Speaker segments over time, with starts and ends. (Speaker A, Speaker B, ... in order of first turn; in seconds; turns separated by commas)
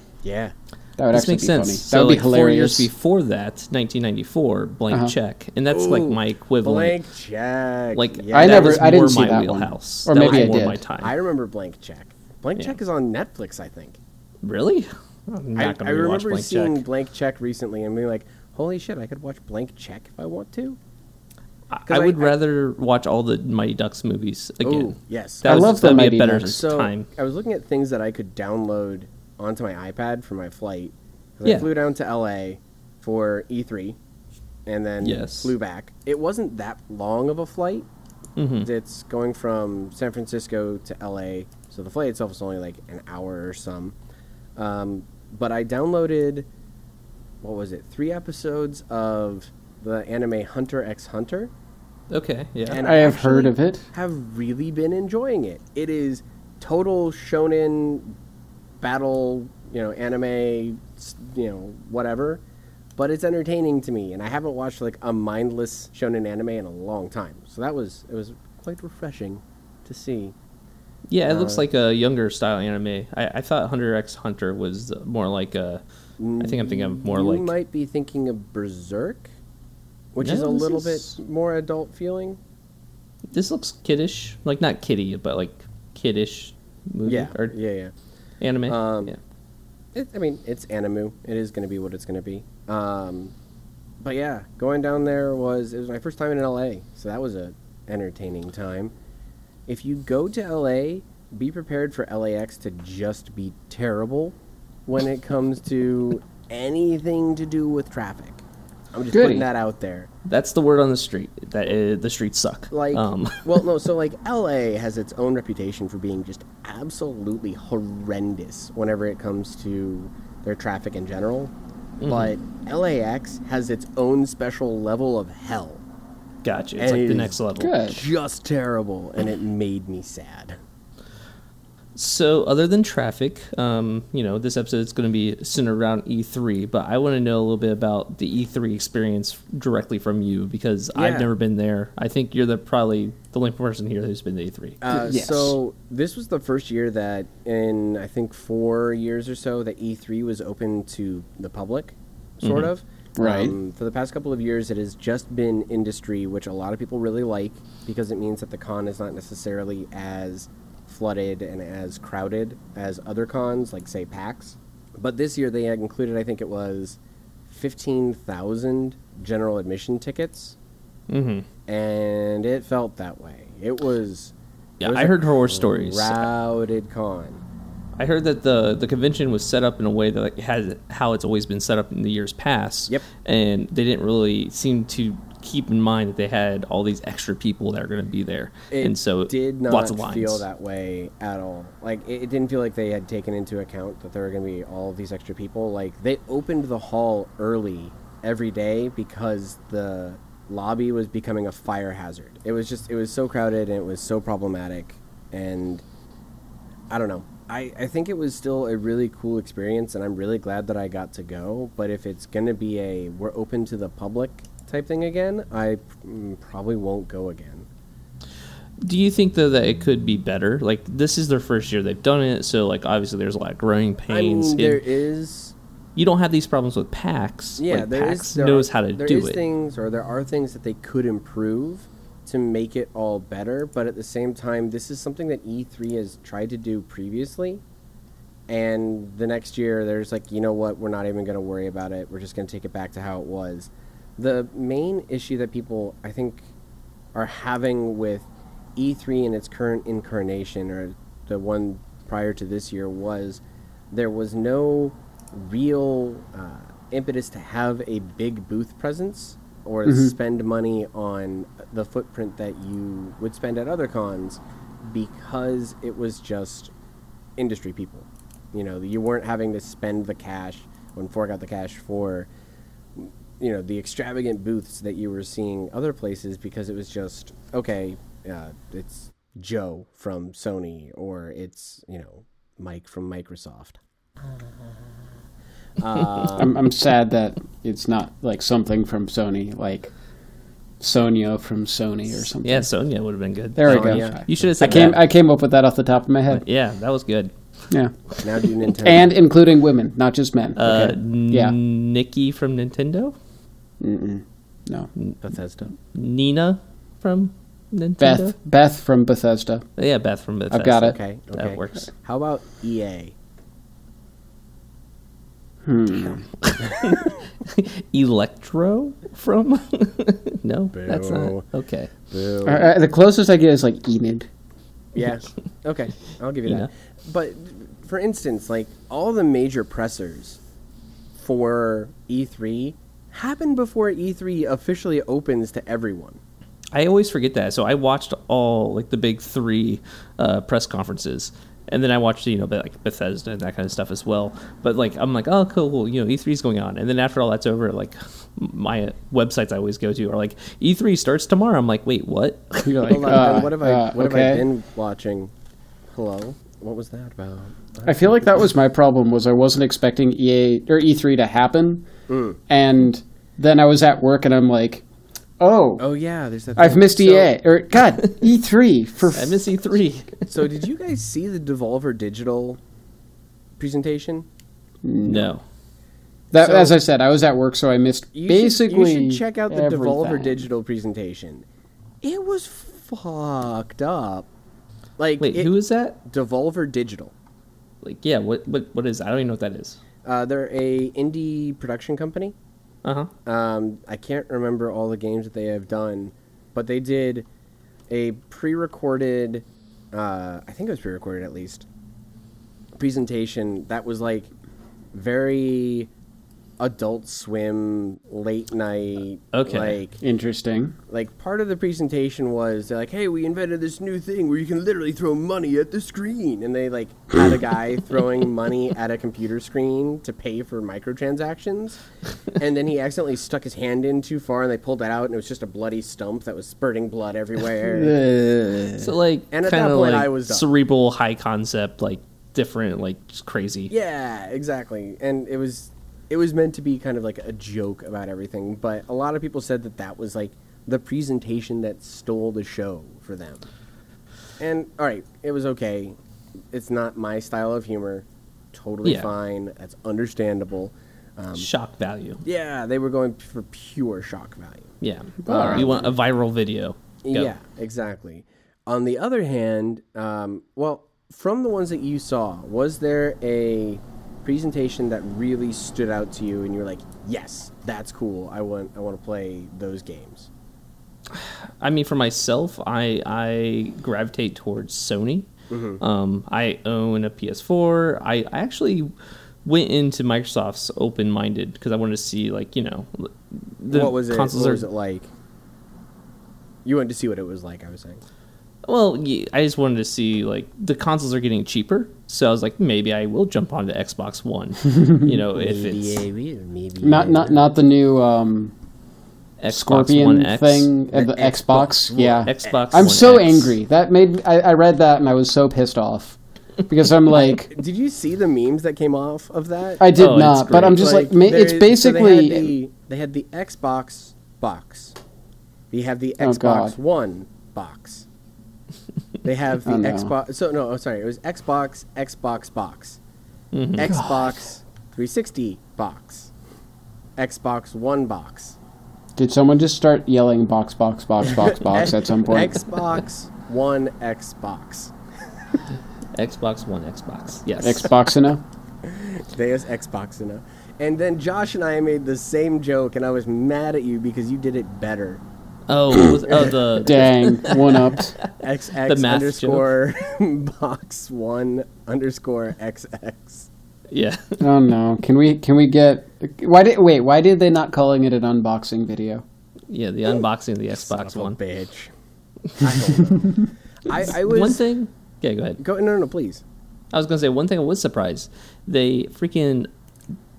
Speaker A: 0.2-0.5, Speaker B: 1.0-2.9, Speaker C: 1.1-7.0, Speaker A: 5.7-9.1, Speaker C: 7.9-11.1, Speaker B: 8.3-10.8, Speaker A: 10.2-14.0, Speaker C: 14.4-16.8, Speaker A: 15.6-20.8, Speaker C: 21.7-27.1, Speaker A: 21.9-22.3, Speaker A: 24.6-34.0, Speaker B: 25.4-26.6, Speaker A: 34.7-37.9, Speaker C: 35.0-35.5, Speaker C: 38.4-38.7, Speaker A: 38.6-43.9, Speaker A: 44.6-46.5, Speaker A: 47.4-51.5, Speaker C: 52.1-52.8, Speaker A: 52.7-58.1, Speaker B: 52.8-53.8, Speaker A: 58.8-62.4, Speaker A: 63.0-70.3, Speaker C: 71.1-75.8, Speaker A: 71.3-71.6, Speaker A: 76.2-79.3, Speaker C: 76.4-77.5, Speaker A: 80.1-82.4, Speaker C: 80.2-81.2, Speaker C: 83.3-87.5, Speaker A: 87.1-87.9, Speaker C: 88.4-89.2, Speaker A: 88.7-89.1, Speaker A: 89.9-93.3, Speaker A: 94.0-98.9, Speaker A: 99.7-104.3, Speaker A: 104.9-110.1, Speaker B: 109.1-109.5, Speaker C: 110.3-113.6, Speaker A: 112.7-121.5, Speaker C: 122.0-122.3, Speaker A: 122.1-125.8, Speaker C: 126.4-127.8, Speaker A: 126.8-130.6, Speaker B: 127.6-128.0, Speaker C: 131.9-144.8, Speaker A: 140.9-141.3, Speaker A: 144.8-170.6, Speaker B: 144.9-145.6, Speaker C: 152.4-152.7, Speaker B: 153.2-153.6, Speaker C: 171.1-171.4, Speaker A: 171.7-177.4, Speaker C: 174.8-176.3, Speaker C: 178.0-190.4, Speaker A: 188.7-205.8, Speaker A: 206.9-217.7, Speaker C: 218.8-224.8, Speaker A: 224.1-225.6, Speaker C: 225.9-229.4, Speaker A: 227.6-237.6, Speaker A: 238.5-246.5, Speaker A: 247.2-253.4, Speaker A: 253.9-266.7, Speaker B: 259.9-260.1, Speaker A: 267.4-272.3, Speaker A: 273.0-283.8, Speaker A: 285.8-286.6, Speaker B: 286.4-289.9, Speaker B: 290.8-292.7, Speaker C: 292.4-295.0, Speaker B: 293.6-296.4, Speaker A: 293.6-294.9, Speaker C: 296.3-297.3, Speaker A: 298.2-299.1, Speaker B: 298.8-301.6, Speaker C: 300.6-303.2, Speaker B: 303.8-304.9, Speaker A: 305.2-305.7, Speaker C: 305.9-308.3, Speaker B: 308.0-309.7, Speaker C: 309.8-311.9, Speaker B: 310.5-311.0, Speaker A: 310.8-313.1, Speaker B: 315.6-316.3, Speaker C: 316.4-321.9, Speaker A: 320.7-321.4, Speaker A: 322.1-322.7, Speaker B: 322.4-324.3, Speaker A: 324.9-330.4, Speaker A: 331.2-336.2, Speaker C: 336.7-353.4, Speaker B: 352.6-354.4, Speaker A: 352.9-355.3, Speaker A: 355.9-358.3, Speaker B: 357.9-361.9, Speaker A: 362.1-362.4, Speaker B: 362.5-364.8, Speaker B: 365.4-365.8, Speaker A: 365.8-367.3, Speaker B: 366.6-369.5, Speaker C: 369.1-370.5, Speaker A: 370.3-372.6, Speaker A: 373.6-374.3, Speaker B: 374.8-375.3, Speaker C: 375.0-375.4, Speaker B: 376.3-380.5, Speaker A: 376.3-376.8, Speaker A: 378.1-381.4, Speaker A: 382.0-384.3, Speaker A: 385.0-387.1, Speaker C: 385.2-386.0, Speaker C: 387.8-389.8, Speaker A: 390.1-392.3, Speaker C: 392.8-393.1, Speaker A: 393.2-397.3, Speaker A: 397.9-401.7, Speaker A: 402.8-404.3, Speaker A: 404.9-405.9, Speaker A: 406.6-410.0, Speaker C: 409.3-409.8, Speaker B: 410.0-410.8, Speaker A: 410.9-421.8, Speaker A: 422.3-428.0, Speaker B: 427.7-428.9, Speaker C: 428.8-433.7, Speaker A: 429.3-430.4, Speaker A: 433.7-443.4, Speaker A: 444.4-446.0, Speaker A: 446.5-451.5, Speaker C: 448.8-449.1, Speaker C: 451.4-452.2, Speaker A: 452.2-454.8, Speaker C: 454.8-457.3, Speaker B: 455.2-455.9, Speaker A: 455.3-455.9, Speaker A: 457.1-470.3, Speaker C: 471.1-475.3, Speaker A: 475.5-475.8, Speaker C: 475.8-478.9, Speaker C: 479.4-484.7, Speaker A: 483.7-485.1, Speaker A: 486.6-488.0, Speaker C: 488.7-496.0, Speaker B: 494.7-495.2, Speaker A: 495.3-497.4, Speaker B: 496.8-498.5, Speaker C: 499.4-500.7, Speaker B: 499.5-507.5, Speaker A: 500.9-502.6, Speaker C: 502.2-503.6, Speaker A: 507.2-510.0, Speaker B: 509.8-512.5, Speaker C: 509.9-511.0, Speaker A: 510.7-515.0, Speaker A: 515.7-518.1, Speaker B: 516.2-516.8, Speaker A: 519.2-523.0, Speaker B: 519.6-520.1, Speaker C: 523.5-523.9, Speaker A: 523.8-526.3, Speaker B: 523.9-524.4, Speaker A: 527.2-528.6, Speaker B: 529.1-532.6, Speaker A: 531.3-534.9, Speaker C: 536.1-537.9, Speaker B: 537.6-538.4, Speaker A: 538.8-545.2, Speaker C: 545.7-548.3, Speaker B: 546.0-548.1, Speaker A: 548.4-553.5, Speaker C: 548.8-549.7, Speaker C: 553.9-554.4, Speaker B: 554.4-559.2, Speaker C: 559.7-561.4, Speaker A: 560.8-561.9, Speaker A: 562.5-564.6, Speaker C: 563.9-565.6, Speaker A: 565.6-566.4, Speaker C: 566.9-569.7